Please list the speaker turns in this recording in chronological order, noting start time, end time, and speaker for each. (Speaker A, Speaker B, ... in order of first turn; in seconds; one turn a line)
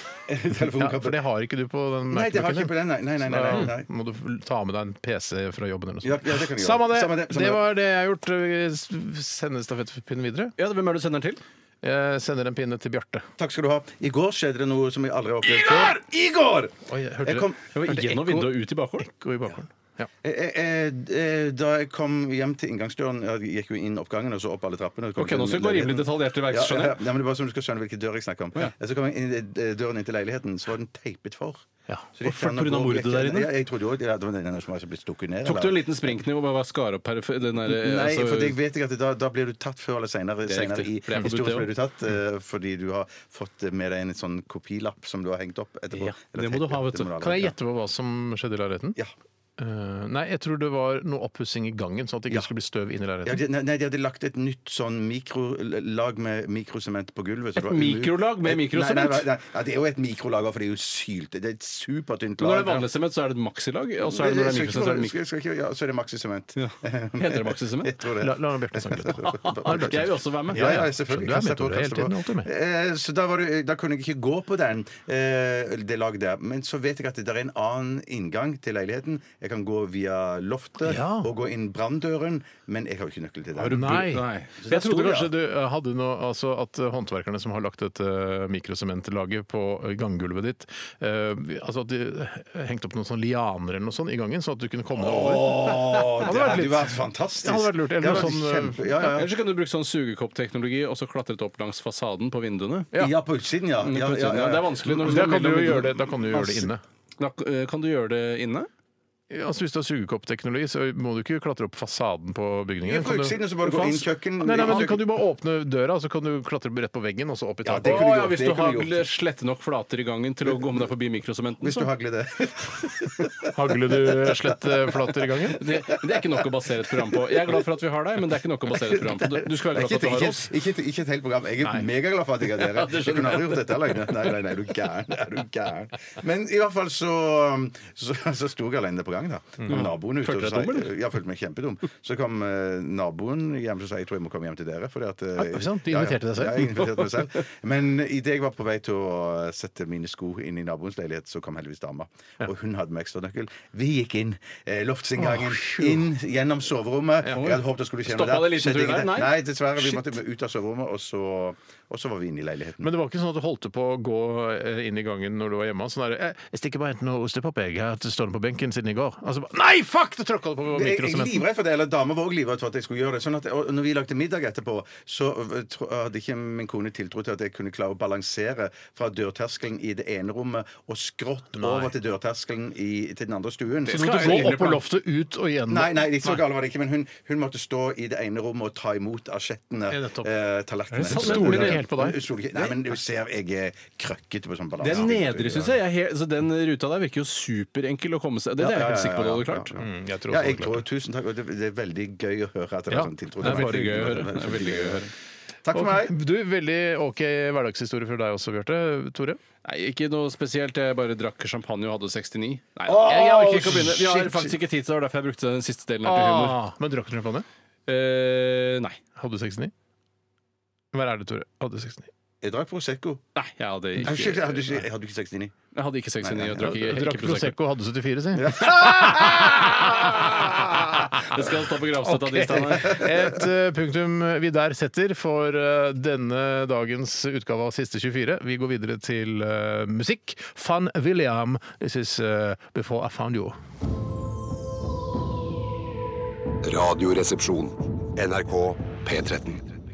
Speaker A: 0.3-1.2
Speaker B: 0.8-10.5
Speaker A: 2.1-3.9
Speaker A: 6.0-7.6
Speaker C: 10.6-11.4
Speaker B: 11.8-13.2
Speaker A: 13.4-17.6
Speaker B: 15.5-15.9
Speaker B: 16.9-20.1
Speaker C: 17.7-19.1
Speaker A: 20.2-35.8
Speaker C: 25.2-27.0
Speaker C: 32.2-33.5
Speaker C: 35.4-38.5
Speaker A: 37.6-47.5
Speaker C: 40.5-41.7
Speaker C: 46.0-47.1
Speaker B: 47.2-49.0
Speaker B: 49.6-53.4
Speaker A: 53.2-62.8
Speaker C: 57.6-59.3
Speaker C: 62.4-65.1
Speaker A: 64.0-84.1
Speaker C: 66.6-67.9
Speaker B: 68.2-72.5
Speaker C: 69.4-70.8
Speaker B: 80.8-81.3
Speaker B: 83.5-99.2
Speaker C: 83.8-84.7
Speaker A: 84.6-85.3
Speaker A: 95.0-99.3
Speaker C: 99.1-102.9
Speaker A: 102.9-104.8
Speaker C: 103.8-106.0
Speaker B: 104.8-106.8
Speaker A: 106.3-106.7
Speaker C: 107.2-108.7
Speaker B: 109.3-118.1
Speaker A: 112.8-115.0
Speaker A: 117.6-119.0
Speaker C: 117.8-121.9
Speaker A: 121.6-125.4
Speaker B: 123.4-125.6
Speaker C: 125.5-130.5
Speaker A: 128.9-162.9
Speaker C: 132.6-133.8
Speaker C: 139.7-140.9
Speaker B: 145.3-147.1
Speaker B: 155.2-156.1
Speaker C: 157.3-160.1
Speaker B: 162.8-171.4
Speaker A: 170.7-184.6
Speaker B: 181.6-181.9
Speaker B: 183.9-186.4
Speaker C: 183.9-184.8
Speaker A: 185.7-195.7
Speaker B: 189.9-190.3
Speaker C: 190.9-191.8
Speaker B: 191.0-192.8
Speaker C: 194.8-199.7
Speaker A: 198.6-205.1
Speaker B: 199.8-200.8
Speaker B: 202.9-204.3
Speaker C: 203.4-205.1
Speaker A: 205.6-206.1
Speaker B: 205.7-209.4
Speaker C: 209.6-216.6
Speaker A: 212.8-214.5
Speaker B: 216.0-217.4
Speaker C: 217.9-219.0
Speaker B: 219.2-219.7
Speaker B: 220.9-222.1
Speaker A: 222.4-223.2
Speaker C: 223.3-224.6
Speaker A: 224.0-225.5
Speaker C: 225.7-227.5
Speaker A: 226.2-226.7
Speaker B: 226.6-231.3
Speaker A: 228.3-230.7
Speaker C: 231.2-233.1
Speaker B: 232.0-243.6
Speaker A: 232.9-233.2
Speaker D: 246.6-249.7